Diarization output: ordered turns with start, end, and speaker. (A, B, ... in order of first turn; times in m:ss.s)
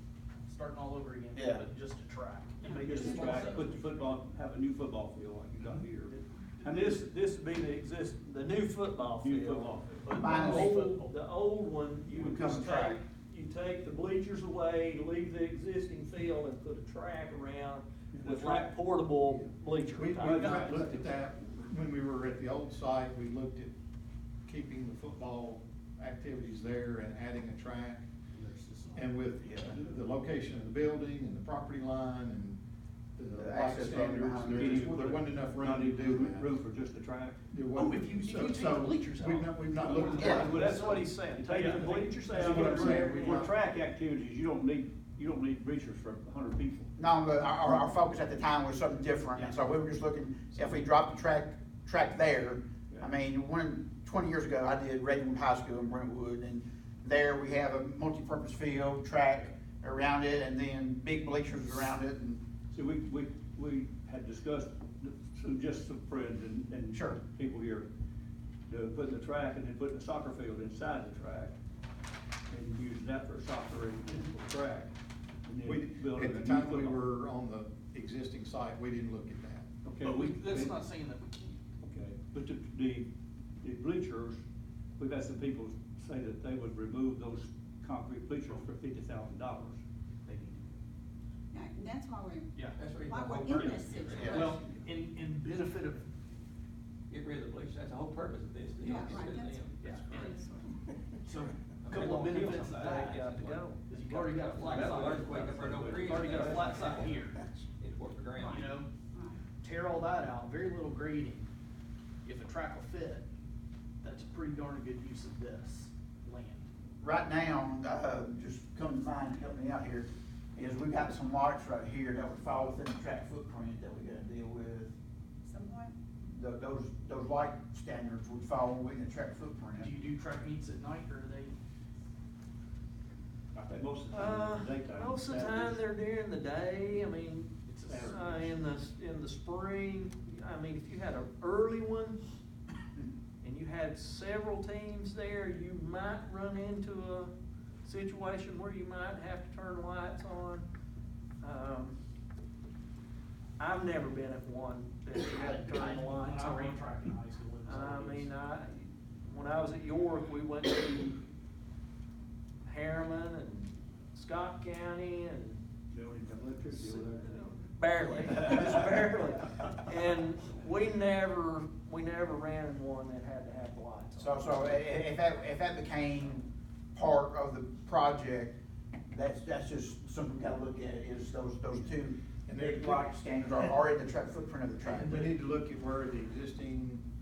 0:00.5-0:03.8 A
0:01.3-0:01.7 B
0:02.7-0:06.1 C
0:06.1-0:09.7 D
0:06.6-0:07.0 C
0:09.2-0:10.4 C
0:10.0-0:11.1 A
0:10.2-0:10.7 B
0:10.5-0:20.9 D
0:12.1-0:13.0 B
0:18.1-0:18.7 C
0:18.2-0:18.7 A
0:19.9-0:23.7 E
0:20.2-0:20.9 C
0:20.3-0:21.0 A
0:24.4-0:28.1 E
0:28.3-0:29.1 A
0:28.9-0:32.6 E
0:29.4-0:29.8 B
0:33.2-0:36.6 E
0:33.4-0:35.0 B
0:34.5-0:37.4 C
0:37.5-0:40.5 E
0:37.7-0:42.6 A
0:40.1-0:46.9 C
0:40.2-0:40.5 B
0:40.5-0:43.4 D
0:42.4-0:43.5 E
0:47.0-1:02.4 B
1:02.7-1:07.9 C
1:06.9-1:07.2 B
1:08.7-1:11.6 C
1:12.5-1:14.9 C
1:15.4-1:17.0 C
1:15.6-1:19.7 E
1:19.8-1:20.8 C
1:20.0-1:21.6 A
1:21.8-1:23.1 C
1:23.6-1:24.4 C
1:25.0-1:29.8 C
1:30.3-1:30.6 A
1:31.5-1:32.4 F
1:32.8-1:34.6 G
1:33.1-1:34.2 F
1:33.5-1:36.1 A
1:37.1-1:40.3 G
1:38.9-1:39.6 F
1:39.8-1:40.4 A
1:40.3-1:40.6 F
1:41.2-1:47.4 A
1:41.8-1:43.7 G
1:42.8-1:44.4 D
1:44.3-1:48.7 G
1:46.0-1:46.6 D
1:48.4-1:48.9 A
1:49.5-1:51.5 A
1:52.2-1:53.3 A
1:54.0-1:56.7 A
1:57.0-2:04.9 B
2:05.5-2:05.9 F
2:06.2-2:09.9 B
2:09.8-2:11.6 A
2:13.7-2:15.8 C
2:14.1-2:17.5 D
2:17.7-2:18.6 A
2:17.9-2:18.2 C
2:18.1-2:22.2 D
2:23.4-2:27.3 D
2:27.8-2:30.7 D
2:31.4-2:32.0 D
2:33.6-2:36.9 D
2:35.1-2:38.3 A
2:37.6-2:41.2 D
2:42.6-2:45.6 D
2:45.9-2:47.7 C
2:47.0-2:54.8 D
2:48.3-2:48.8 C
2:54.2-2:58.6 B
2:59.1-3:05.2 B
3:02.5-3:03.8 E
3:04.8-3:05.3 A
3:05.1-3:07.0 E